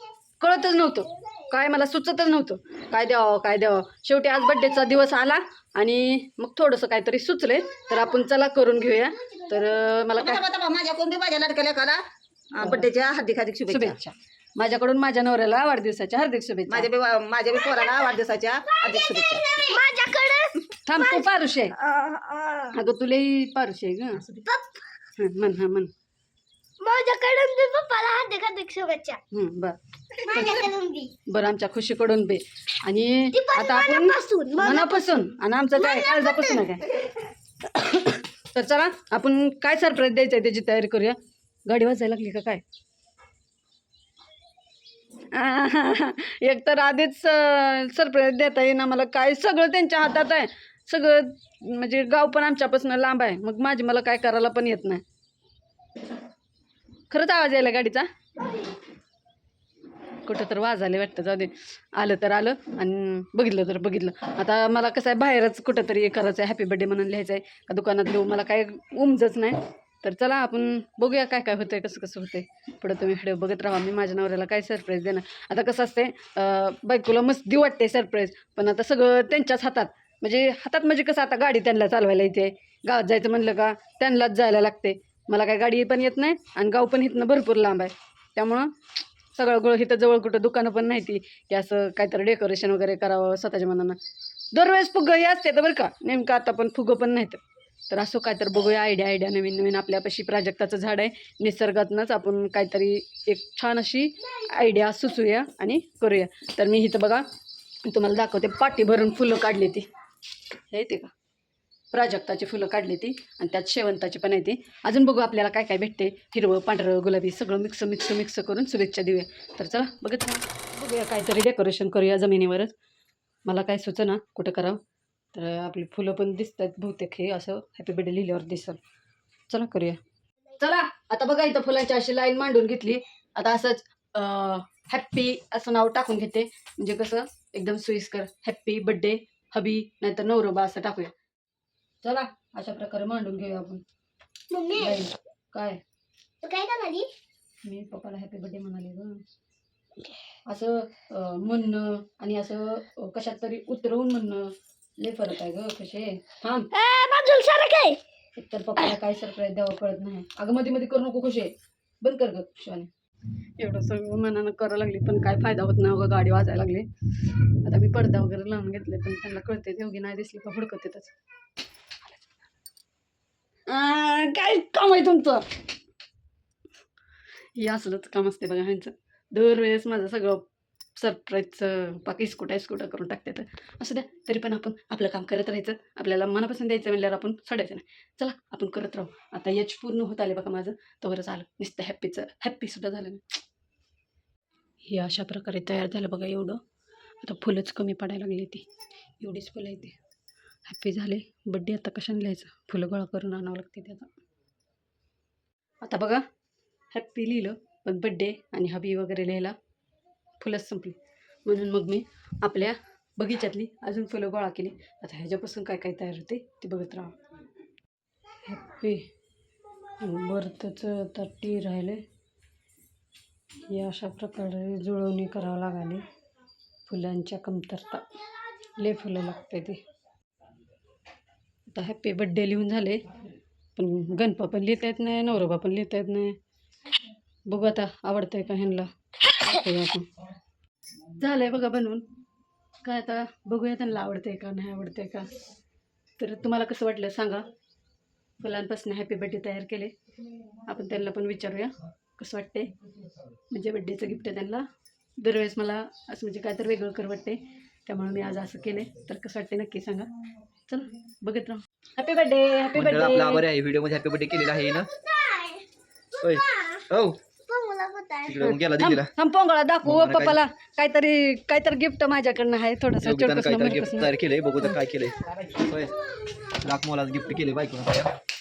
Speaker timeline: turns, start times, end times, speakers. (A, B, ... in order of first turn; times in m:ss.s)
0:00.4-0:10.4 A
0:10.2-0:14.0 B
0:12.6-0:12.9 A
0:13.7-0:16.9 A
0:16.7-0:19.8 B
0:17.6-0:18.0 C
0:18.8-0:21.2 C
0:20.8-0:21.8 A
0:21.8-0:22.8 B
0:22.7-0:24.2 A
0:24.2-0:24.5 B
0:24.4-0:24.8 C
0:25.2-0:25.9 A
0:26.8-0:29.2 C
0:29.3-0:29.8 A
0:30.3-0:31.1 C
0:30.3-0:30.6 A
0:31.3-0:37.0 A
0:33.3-0:35.1 C
0:35.8-0:36.7 C
0:37.6-0:42.6 A
0:45.3-0:55.0 A
0:57.1-0:58.1 A
1:00.2-1:28.7 A
1:29.3-1:34.0 A
1:34.5-1:47.2 A
1:47.8-1:49.9 A
1:50.7-1:51.1 A
1:51.9-2:02.7 A
2:03.4-2:04.8 A
2:05.3-2:08.8 A
2:09.5-2:10.0 A
2:10.6-2:21.1 A
2:22.0-2:23.8 A
2:24.5-2:25.0 C
2:24.7-2:25.8 A
2:26.4-2:27.1 C
2:27.6-2:29.2 A
2:30.4-2:36.7 A
2:36.7-2:38.0 C
2:38.3-2:42.9 A
2:43.6-2:51.1 A
2:53.7-2:55.6 A
2:57.6-3:00.4 A
3:00.9-3:13.4 A
3:14.9-3:16.6 A
3:17.2-3:18.6 A
3:19.2-3:20.0 A
3:20.6-3:24.1 A
3:25.8-3:26.2 A
3:26.9-3:29.5 A
3:30.4-3:37.1 A
3:38.4-3:39.0 A
3:40.0-3:42.0 A
3:43.7-3:46.0 A
3:46.9-3:48.0 A
3:48.8-3:49.8 A
3:51.7-3:53.0 A
3:53.8-3:56.4 A
3:57.5-4:00.1 A
4:01.1-4:02.0 A
4:02.8-4:05.3 A
4:06.2-4:07.5 A
4:08.4-4:09.9 A
4:10.6-4:12.7 A
4:13.5-4:14.6 A
4:15.2-4:20.1 A
4:20.7-4:23.4 A
4:22.7-4:24.9 D
4:25.0-4:25.6 C
4:26.2-4:27.2 D
4:27.5-4:28.4 C
4:28.2-4:29.1 D
4:28.4-4:34.1 A
4:29.8-4:30.4 D
4:33.0-4:35.9 D
4:36.5-4:38.1 D